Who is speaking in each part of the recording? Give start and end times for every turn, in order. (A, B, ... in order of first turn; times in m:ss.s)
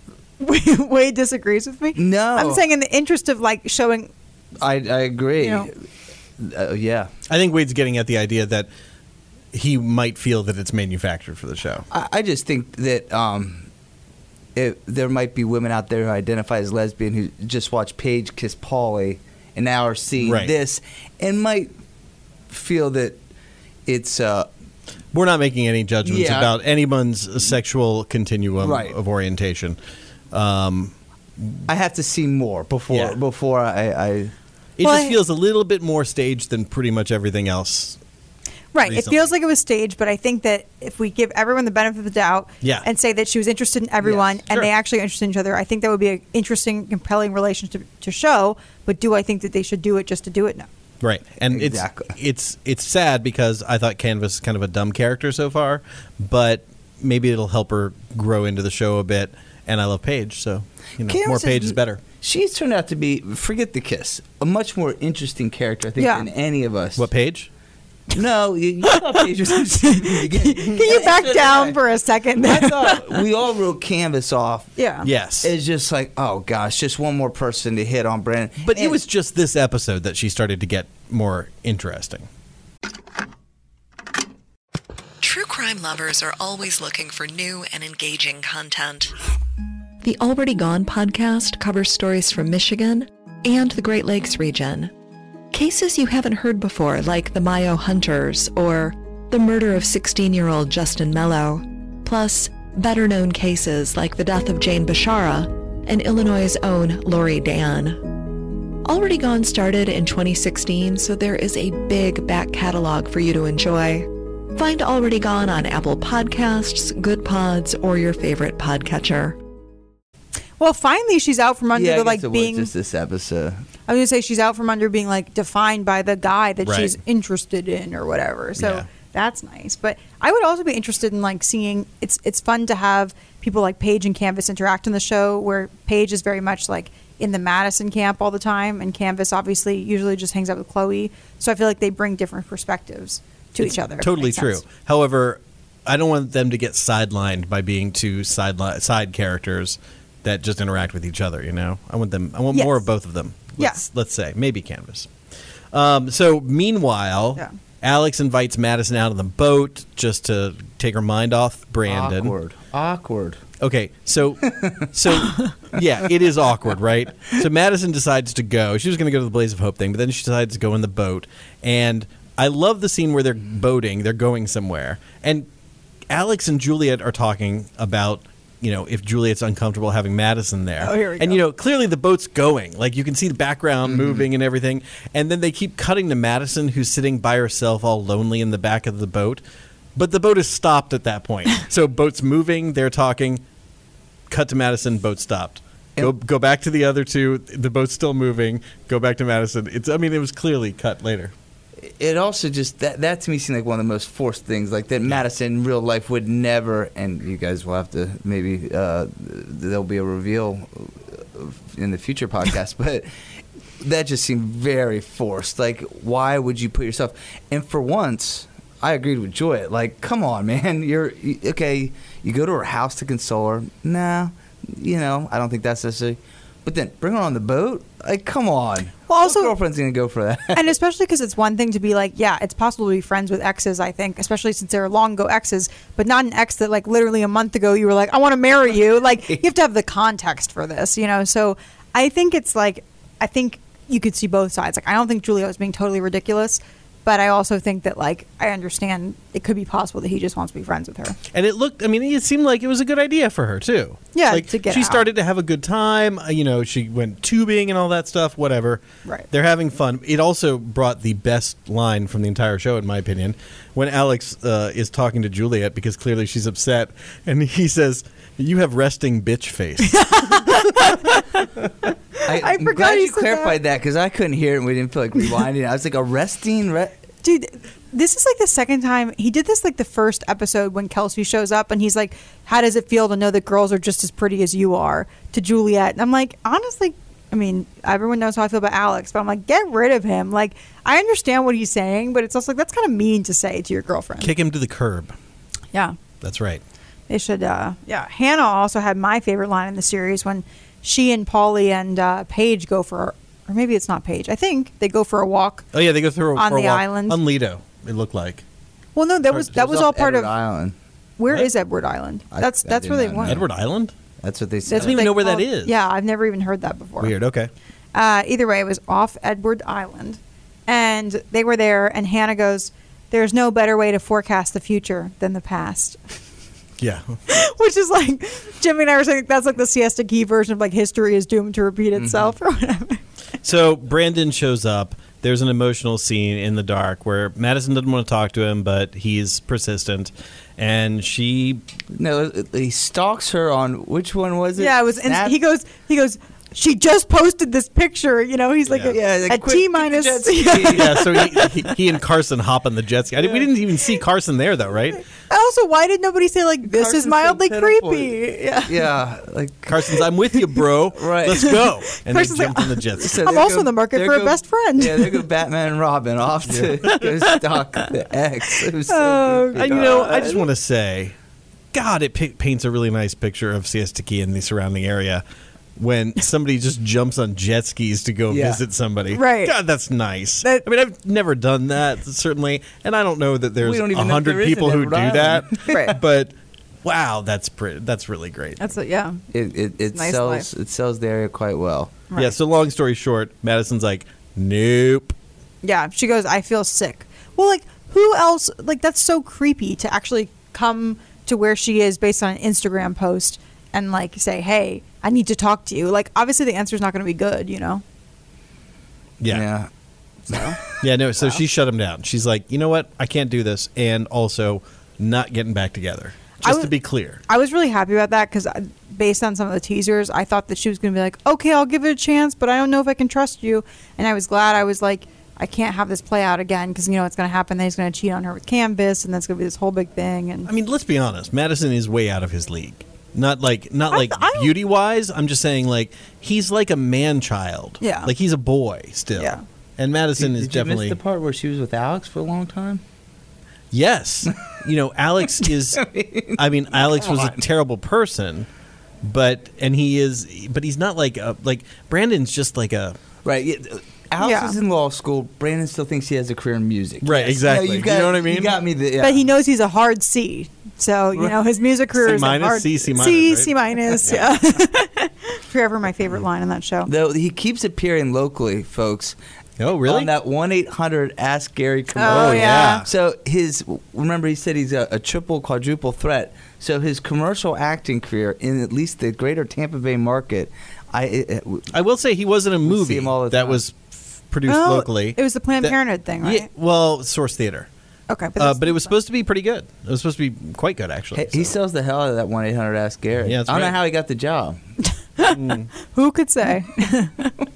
0:00.4-0:04.1 A
0:02.0-0:02.6 B
0:04.6-0:05.7 B
0:05.4-0:05.7 A
0:06.4-0:07.1 B
0:07.3-0:08.7 C
0:09.5-0:11.9 C
0:11.9-0:13.7 B
0:14.6-0:21.7 B
0:20.2-0:20.5 C
0:22.5-0:23.2 B
0:23.9-0:24.5 B
0:25.1-0:29.8 C
0:26.0-0:26.5 B
0:28.6-0:29.0 B
0:30.3-0:31.7 C
0:31.7-0:34.3 B
0:32.9-0:33.2 C
0:34.8-0:38.0 C
0:34.8-0:35.2 A
0:38.7-0:50.7 A
0:38.9-0:39.3 C
0:44.0-0:44.4 B
0:51.0-1:02.0 C
0:51.5-0:52.1 B
1:01.0-1:07.1 B
1:06.0-1:06.3 A
1:07.0-1:07.5 C
1:08.1-1:11.8 B
1:08.9-1:13.2 A
1:12.4-1:14.7 B
1:14.8-1:15.1 A
1:15.0-1:15.5 C
1:15.4-1:19.0 B
1:18.6-1:22.3 C
1:25.2-1:29.2 D
1:30.0-1:34.9 D
1:35.5-1:59.4 D
2:00.6-2:02.7 A
2:01.7-2:03.6 B
2:03.9-2:24.6 A
2:06.6-2:06.9 C
2:08.6-2:08.8 C
2:23.6-2:35.1 C
2:32.5-2:32.8 A
2:35.7-2:42.4 C
2:41.9-2:43.4 B
2:43.6-2:55.5 C
2:44.4-2:45.3 B
2:56.1-3:09.4 C
3:00.8-3:01.4 A
3:03.9-3:04.2 B
3:10.0-3:13.4 C
3:14.3-3:21.3 C
3:21.8-3:33.1 B
3:33.8-3:50.7 B
3:49.1-3:49.5 A
3:50.5-4:11.2 A
4:11.3-4:30.6 C
4:14.1-4:15.1 A
4:29.8-4:31.5 A
4:32.2-4:33.6 A
4:32.2-4:37.0 B
4:37.2-4:54.3 A
4:54.2-4:55.1 C
4:56.2-4:56.6 C
4:57.1-5:05.7 A
5:05.7-5:08.4 C
5:06.4-5:07.2 A
5:09.0-5:10.3 A
5:09.5-5:10.8 B
5:11.2-5:13.5 A
5:12.3-5:13.5 B
5:13.2-5:13.9 C
5:14.2-5:15.0 B
5:14.7-5:17.1 A
5:14.8-5:15.7 C
5:17.0-5:17.5 C
5:17.9-5:26.2 A
5:26.8-5:27.2 C
5:27.3-5:33.0 A
5:32.0-5:32.4 B
5:33.4-5:41.6 C
5:41.9-5:45.4 B
5:44.6-5:51.5 A
5:48.7-5:48.9 C
5:48.9-5:51.5 B
5:50.7-5:55.0 C
5:53.2-5:53.5 B
5:55.2-5:58.8 A
5:56.6-6:00.0 B
5:59.7-6:03.4 C
6:00.9-6:01.6 B
6:01.3-6:05.2 A
6:03.0-6:10.3 B
6:06.5-6:07.0 C
6:06.8-6:07.5 A
6:08.6-6:10.5 A
6:09.6-6:11.1 C
6:11.7-6:15.2 C
6:15.8-6:26.3 C
6:18.3-6:18.6 B
6:19.1-6:19.6 A
6:23.6-6:26.0 B
6:25.7-6:26.0 A
6:26.8-6:28.6 C
6:28.6-6:29.2 A
6:29.3-6:32.0 B
6:29.9-6:30.5 A
6:32.1-6:32.4 A
6:32.2-6:35.2 C
6:35.6-6:47.8 A
6:49.2-6:49.5 C
6:49.3-6:49.7 B
6:50.3-6:50.6 A
6:50.3-6:50.7 B
6:50.7-6:57.2 C
6:56.4-6:56.7 A
6:57.3-7:10.5 A
7:10.5-7:21.0 C
7:13.9-7:14.5 A
7:17.8-7:18.1 A
7:19.2-7:19.4 A
7:20.2-7:22.8 B
7:23.7-7:28.5 C
7:24.3-7:24.6 B
7:25.4-7:27.4 B
7:29.0-7:33.0 C
7:33.2-7:39.2 B
7:34.2-7:34.6 A
7:37.0-7:38.6 C
7:39.0-7:46.9 A
7:42.0-7:44.2 C
7:46.9-7:49.2 B
7:49.6-7:50.1 C
7:49.8-8:01.7 B
7:52.0-7:52.9 A
7:52.0-7:52.9 C
8:01.7-8:07.7 C
8:02.7-8:03.6 B
8:04.5-8:06.5 A
8:08.1-8:08.9 A
8:08.4-8:11.6 C
8:11.2-8:14.6 B
8:13.2-8:13.8 C
8:14.9-8:17.4 A
8:15.2-8:15.7 C